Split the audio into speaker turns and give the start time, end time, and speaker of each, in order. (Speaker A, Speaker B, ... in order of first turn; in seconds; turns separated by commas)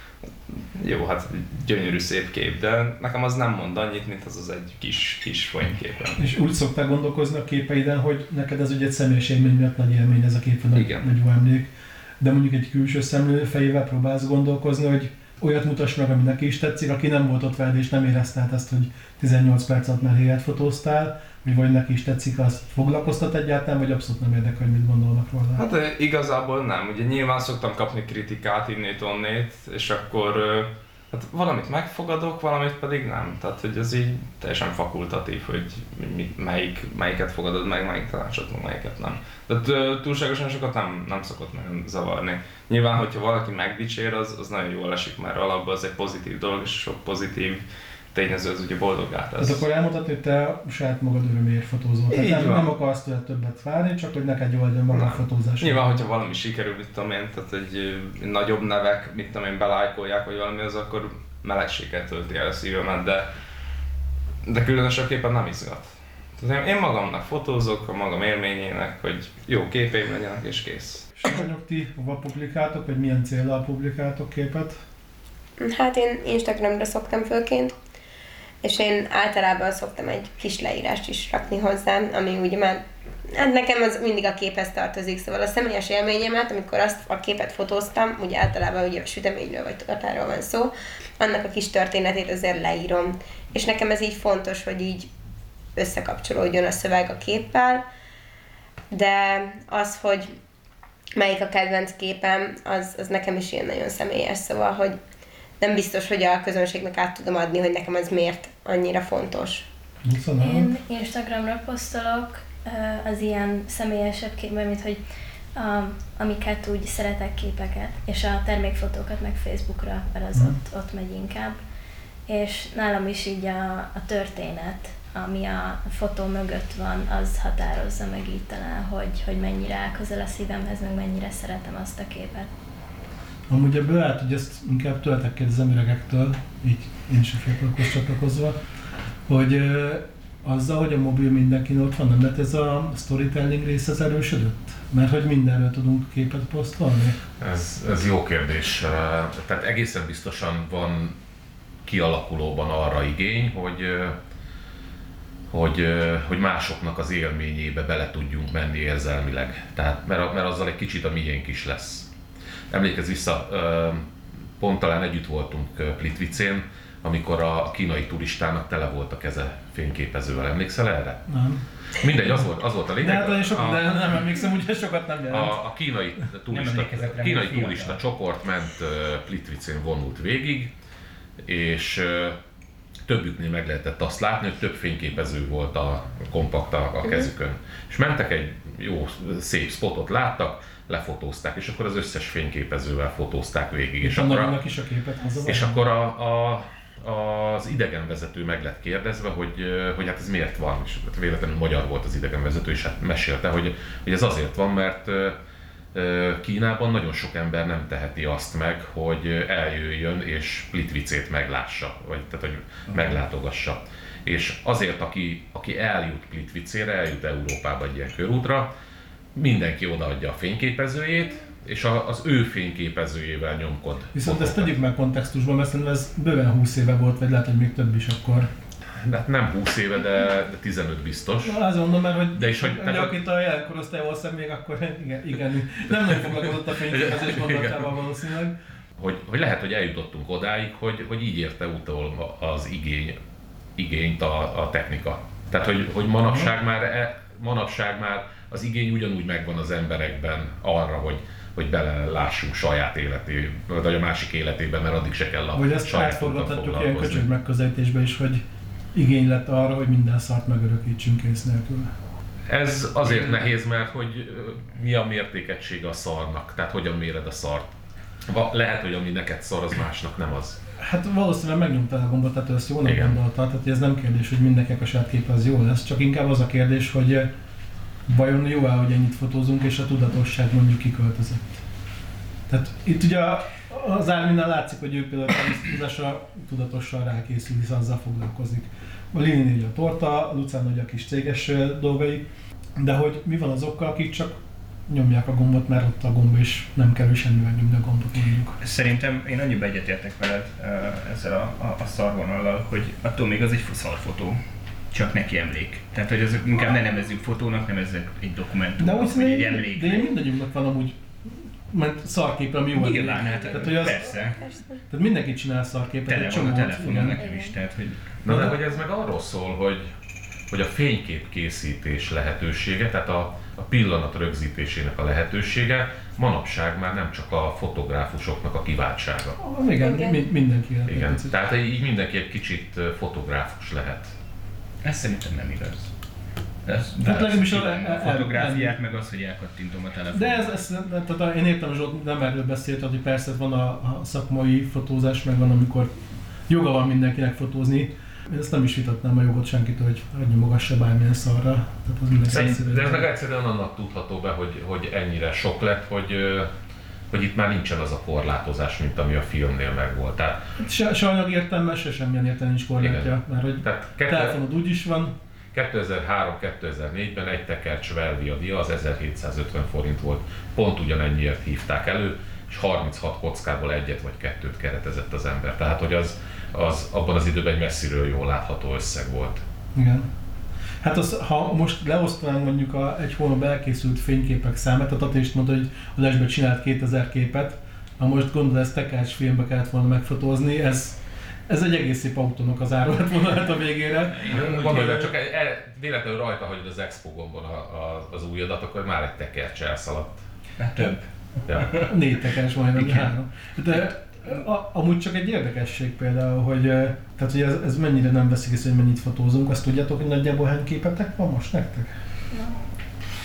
Speaker A: 0.5-6.3, Speaker B: 6.2-25.6, Speaker A: 10.7-11.1, Speaker A: 25.6-49.6, Speaker B: 49.4-55.8, Speaker A: 52.1-52.7, Speaker A: 54.9-63.3, Speaker A: 64.5-71.1, Speaker B: 71.2-74.8, Speaker C: 75.6-77.8, Speaker C: 78.6-95.1, Speaker C: 95.8-97.8, Speaker C: 98.9-100.3, Speaker C: 101.2-105.0, Speaker C: 105.6-109.7, Speaker B: 110.0-110.8, Speaker D: 110.4-115.0, Speaker D: 115.5-121.6, Speaker D: 122.3-132.5, Speaker B: 133.5-138.6, Speaker B: 139.3-147.2, Speaker E: 147.4-151.2, Speaker E: 151.8-154.2, Speaker E: 155.5-162.1, Speaker E: 162.7-171.3, Speaker B: 171.3-171.6, Speaker E: 172.0-173.8, Speaker B: 173.0-175.6, Speaker E: 175.3-180.7, Speaker F: 176.5-178.0, Speaker E: 181.4-182.4, Speaker E: 183.1-194.6, Speaker B: 194.0-195.8, Speaker E: 195.4-205.4, Speaker E: 205.9-218.7, Speaker E: 219.3-224.8, Speaker B: 224.1-228.5, Speaker E: 229.0-231.6, Speaker B: 231.4-238.5, Speaker E: 232.3-233.2, Speaker E: 236.1-237.9, Speaker E: 239.0-243.2, Speaker E: 243.8-257.3, Speaker B: 255.6-258.4, Speaker B: 258.9-261.9, Speaker E: 262.5-267.7, Speaker E: 268.3-270.6, Speaker B: 270.8-277.3, Speaker E: 272.9-273.2, Speaker B: 278.1-281.5, Speaker B: 282.5-292.3, Speaker B: 292.8-298.6, Speaker F: 298.6-310.2, Speaker B: 308.8-314.1, Speaker F: 312.7-314.4, Speaker C: 314.1-314.8, Speaker B: 314.9-317.2, Speaker F: 316.1-318.1, Speaker D: 317.2-317.6, Speaker E: 318.2-319.9, Speaker B: 318.3-318.6, Speaker E: 320.5-329.4, Speaker B: 329.4-331.4, Speaker C: 329.8-330.2, Speaker E: 330.9-334.1, Speaker F: 334.8-335.9, Speaker F: 336.6-340.5, Speaker B: 337.0-338.8, Speaker B: 340.1-345.9, Speaker B: 346.5-353.1, Speaker E: 352.3-356.5, Speaker E: 357.1-360.4, Speaker B: 360.6-365.1, Speaker E: 362.8-364.4, Speaker E: 365.5-379.4, Speaker B: 379.8-380.1, Speaker B: 380.8-395.1, Speaker F: 394.2-394.9, Speaker E: 394.3-400.2, Speaker F: 400.6-401.9, Speaker E: 401.5-401.7, Speaker B: 401.8-411.9, Speaker F: 402.8-403.1, Speaker D: 412.3-412.6